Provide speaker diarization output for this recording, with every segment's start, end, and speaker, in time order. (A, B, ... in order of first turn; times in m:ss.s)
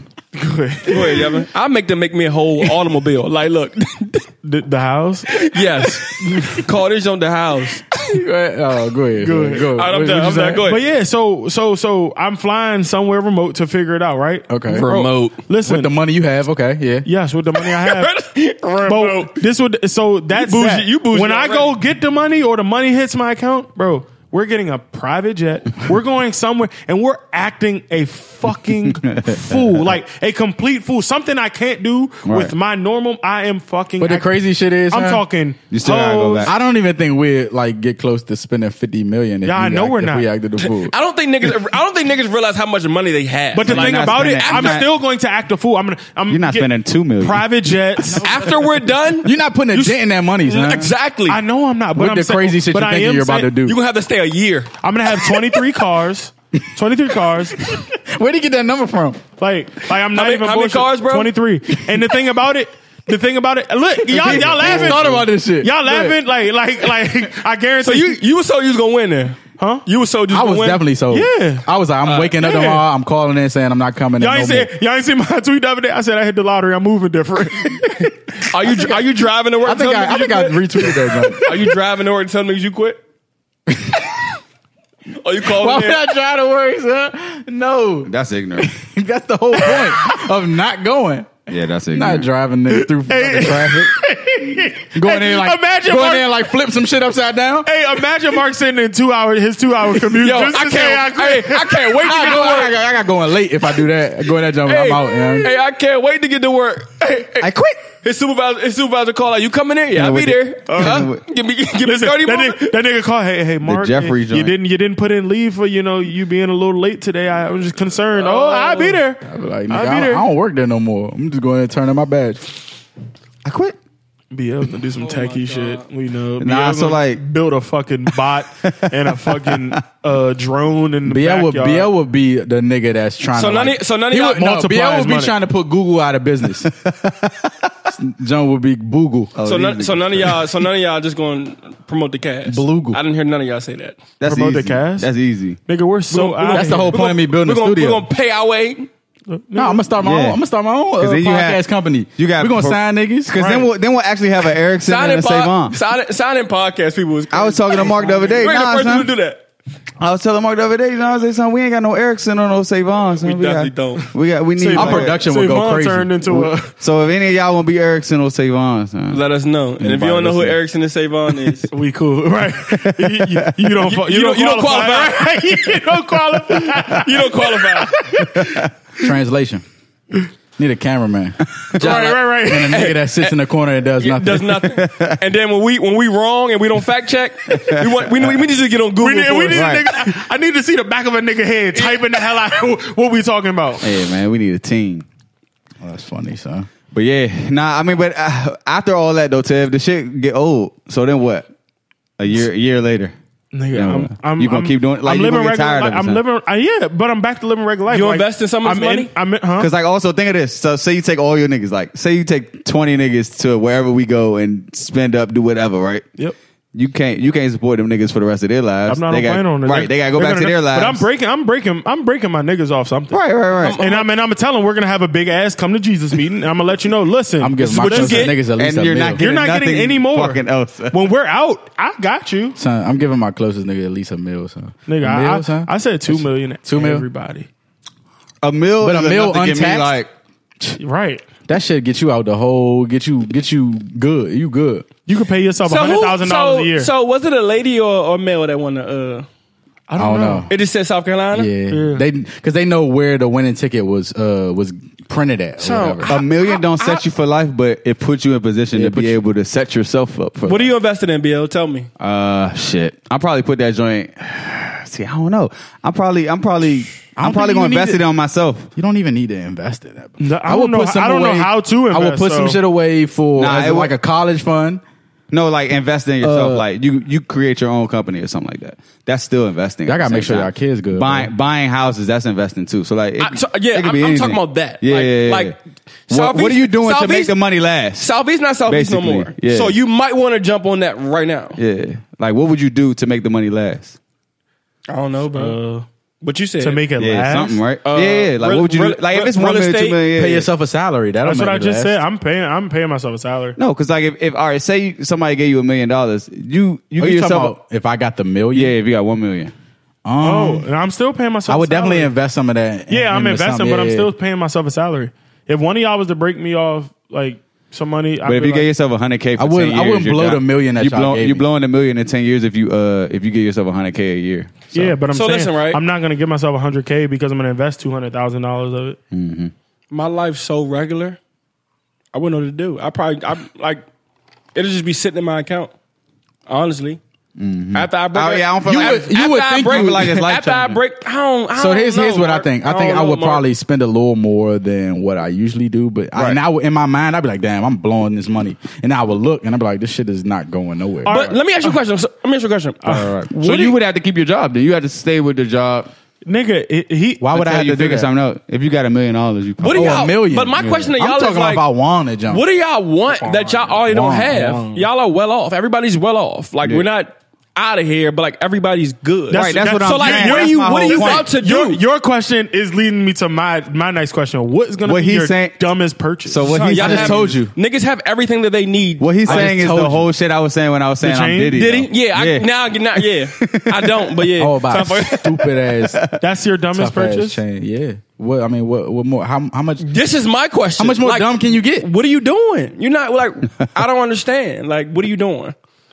0:00.3-0:01.4 A
0:00.9-0:04.2 B
0:04.4-0:05.5 A
0:05.3-0:07.8 B
0:06.1-0:06.6 A
0:08.1-0:10.7 C
0:09.2-0:09.8 A
0:09.7-0:10.9 B
0:10.6-0:15.9 A
0:14.5-0:14.9 C
0:14.7-0:15.4 B
0:15.6-0:17.1 C
0:17.0-0:18.1 A
0:17.6-0:19.4 B
0:18.8-0:34.4 A
0:20.3-0:21.8 B
0:28.9-0:29.6 D
0:32.2-0:32.5 C
0:34.0-0:35.2 C
0:34.9-0:36.5 A
0:35.7-0:36.5 D
0:36.4-0:40.9 C
0:39.4-0:40.3 A
0:40.6-0:44.8 B
0:43.5-0:48.3 A
0:43.6-0:44.9 D
0:46.3-0:47.4 D
0:48.1-0:50.9 C
0:48.2-0:51.4 B
0:51.3-0:53.5 A
0:51.9-0:53.8 C
0:53.6-0:55.4 B
0:54.8-0:57.6 A
0:57.7-0:59.2 C
0:59.4-1:05.0 A
1:00.1-1:01.3 B
1:04.0-1:06.2 C
1:04.3-1:05.3 B
1:05.6-1:08.2 A
1:07.8-1:10.8 B
1:09.6-1:09.8 A
1:10.3-1:14.7 C
1:11.1-1:11.7 A
1:12.0-1:12.4 B
1:12.4-1:12.8 A
1:14.2-1:18.7 A
1:18.5-1:20.6 B
1:19.6-1:21.8 C
1:21.4-1:23.0 B
1:23.7-1:24.1 C
1:25.2-1:26.0 B
1:25.4-1:34.0 C
1:28.0-1:28.7 D
1:29.7-1:30.1 A
1:31.5-1:32.3 D
1:32.7-1:36.3 A
1:34.9-1:37.7 C
1:37.6-1:42.1 A
1:40.0-1:42.8 B
1:42.0-1:45.5 C
1:44.6-1:47.5 B
1:47.4-1:47.8 D
1:48.0-1:52.8 B
1:49.9-1:51.2 D
1:50.7-1:51.1 A
1:51.8-2:00.3 A
1:53.6-1:54.5 D
1:58.1-1:59.0 B
1:59.2-2:02.5 C
2:03.4-2:03.8 D
2:04.3-2:11.9 A
2:05.0-2:05.8 B
2:06.4-2:07.2 D
2:08.6-2:09.8 D
2:11.0-2:16.7 C
2:13.3-2:14.4 B
2:14.2-2:15.4 A
2:16.8-2:17.7 D
2:18.0-2:19.3 C
2:19.3-2:20.5 D
2:19.4-2:24.0 B
2:22.5-2:23.0 C
2:24.2-2:25.6 D
2:24.2-2:25.1 A
2:25.6-2:27.0 A
2:26.1-2:28.9 B
2:26.5-2:28.0 C
2:29.3-2:29.9 A
2:29.5-2:33.5 C
2:30.0-2:30.4 D
2:31.0-2:31.6 D
2:32.2-2:35.8 D
2:33.4-2:33.7 A
2:34.8-2:39.4 B
2:37.3-2:39.1 D
2:40.0-2:45.2 D
2:43.2-2:44.1 B
2:44.6-2:46.7 A
2:44.7-2:46.5 C
2:46.7-2:49.2 D
2:49.1-2:51.7 B
2:49.8-2:50.6 C
2:51.7-2:58.6 A
2:52.9-2:53.3 D
2:53.8-2:55.6 B
2:56.9-2:57.9 B
2:58.2-2:58.7 D
2:59.0-2:59.6 C
3:00.6-3:04.7 C
3:01.8-3:02.8 A
3:02.7-3:03.4 B
3:04.0-3:09.7 B
3:04.7-3:05.1 D
3:07.5-3:08.3 D
3:09.0-3:13.9 A
3:09.5-3:09.9 D
3:11.8-3:12.2 B
3:13.8-3:15.0 D
3:15.8-3:16.7 C
3:16.9-3:21.5 D
3:22.2-3:23.1 D
3:23.5-3:29.7 A
3:23.7-3:26.2 D
3:27.9-3:29.1 B
3:29.6-3:36.0 D
3:36.7-3:41.0 D
3:38.9-3:43.2 A
3:43.1-3:43.8 D
3:43.6-3:44.1 B
3:43.8-3:48.3 A
3:47.4-3:49.2 C
3:47.8-3:48.4 B
3:48.5-3:51.0 D
3:49.2-3:52.6 A
3:52.6-3:57.0 C
3:54.9-3:57.5 A
3:58.4-4:00.1 D
3:58.8-4:00.0 C
4:00.8-4:01.2 A
4:01.5-4:04.9 C
4:05.0-4:06.9 A
4:05.6-4:09.3 B
4:09.9-4:10.5 A
4:10.0-4:10.5 C
4:10.5-4:11.5 B
4:11.3-4:16.2 C
4:11.7-4:12.0 A
4:15.6-4:17.0 B
4:16.1-4:20.7 D
4:18.7-4:19.3 C
4:20.4-4:21.9 B
4:22.0-4:28.7 D
4:27.2-4:28.0 C
4:28.8-4:34.8 C
4:30.2-4:32.6 A
4:33.4-4:33.9 D
4:35.3-4:45.5 D
4:36.2-4:36.7 C
4:39.8-4:41.3 C
4:43.2-4:45.6 B
4:46.1-4:47.4 B
4:46.1-4:48.1 D
4:48.0-4:51.6 B
4:48.7-4:49.8 D
4:51.6-4:54.0 D
4:54.9-4:55.6 B
4:55.3-4:55.9 A
4:56.2-4:56.8 B
4:56.6-4:57.6 A
4:57.0-5:00.5 D
4:57.8-5:00.1 B
5:00.1-5:02.0 C
5:01.2-5:03.6 A
5:03.6-5:07.6 D
5:07.0-5:08.7 C
5:08.5-5:09.5 D
5:10.0-5:10.7 C
5:10.2-5:12.1 A
5:11.5-5:14.1 C
5:12.9-5:18.7 A
5:18.2-5:24.9 D
5:19.4-5:21.4 C
5:24.7-5:29.0 A
5:25.1-5:25.8 B
5:29.1-5:29.5 D
5:29.9-5:31.2 B
5:32.1-5:33.8 B
5:34.5-5:35.7 B
5:36.5-5:37.0 B
5:37.4-5:40.8 D
5:37.7-5:43.4 B
5:38.6-5:40.3 C
5:41.5-5:51.2 C
5:51.0-5:51.7 A
5:51.1-5:53.8 B
5:52.8-5:53.1 A
5:53.3-5:55.9 D
5:56.2-5:57.3 A
5:57.2-5:58.1 C
5:57.3-6:00.8 D
5:59.6-6:01.7 B
5:59.7-6:02.4 C
6:02.3-6:11.8 B
6:03.2-6:04.6 C
6:04.3-6:04.9 A
6:09.3-6:16.6 A
6:09.3-6:11.3 D
6:14.8-6:15.7 D
6:16.2-6:17.4 D
6:16.4-6:19.5 B
6:16.8-6:17.5 C
6:19.0-6:22.5 D
6:19.2-6:20.1 C
6:21.0-6:21.6 A
6:21.5-6:25.3 B
6:23.3-6:24.2 D
6:24.4-6:26.0 C
6:25.8-6:26.2 D
6:26.2-6:27.4 A
6:26.7-6:29.9 C
6:29.8-6:35.5 B
6:30.8-6:31.9 C